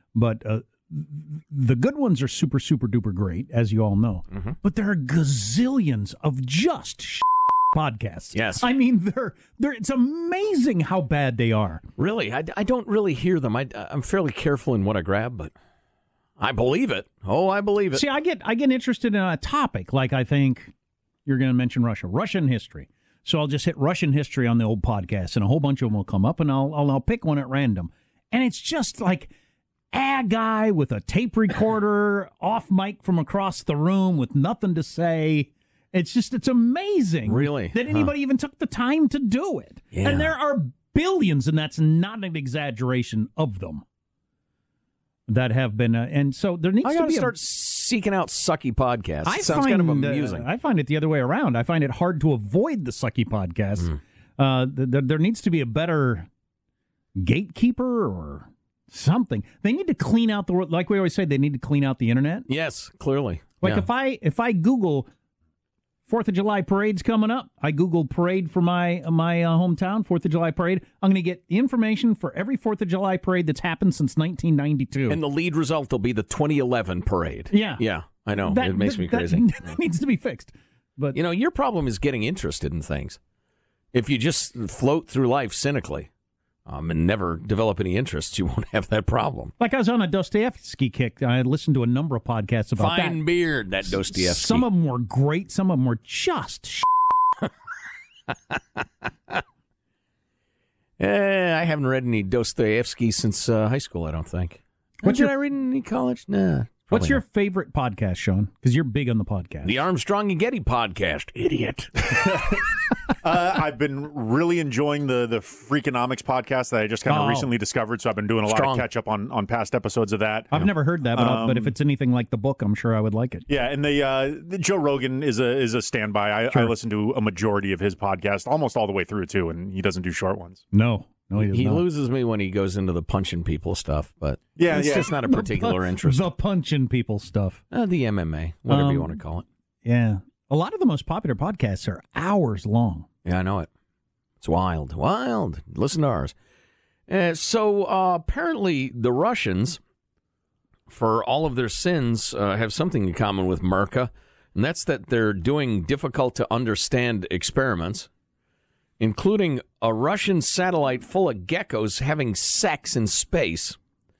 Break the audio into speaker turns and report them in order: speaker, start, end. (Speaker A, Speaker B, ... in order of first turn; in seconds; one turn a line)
Speaker A: 0.1-11.8
Speaker B: 8.3-8.7
Speaker B: 12.0-15.5
Speaker B: 16.4-18.0
Speaker A: 17.9-20.7
Speaker A: 21.2-29.3
Speaker A: 29.9-43.8
Speaker B: 37.3-38.1
Speaker B: 39.9-40.3
Speaker A: 45.3-47.3
Speaker B: 46.8-50.5
Speaker A: 49.2-56.3
Speaker A: 57.2-62.5
Speaker B: 62.5-63.9
Speaker A: 63.6-65.1
Speaker A: 66.1-75.2
Speaker B: 75.1-79.7
Speaker A: 77.5-77.8
Speaker A: 78.3-81.2
Speaker B: 81.1-83.2
Speaker B: 83.9-86.1
Speaker B: 86.7-89.5
Speaker A: 89.6-93.2
Speaker B: 92.8-94.7
Speaker A: 93.9-96.9
Speaker B: 101.0-107.2
Speaker A: 105.0-105.3
Speaker A: 106.9-109.8
Speaker B: 109.6-112.2
Speaker C: 112.1-112.6
Speaker C: 113.2-121.7
Speaker A: 117.1-117.5
Speaker B: 118.4-118.8
Speaker A: 120.5-123.5
Speaker C: 123.5-130.6
Speaker A: 130.7-131.8
Speaker B: 131.4-136.3
Speaker C: 134.6-135.1
Speaker A: 134.7-137.6
Speaker B: 137.7-139.4
Speaker A: 138.7-139.2
Speaker A: 139.8-143.1
Speaker B: 143.2-143.7
Speaker B: 144.4-146.3
Speaker B: 147.1-149.8
Speaker B: 150.9-158.1
Speaker B: 159.0-163.8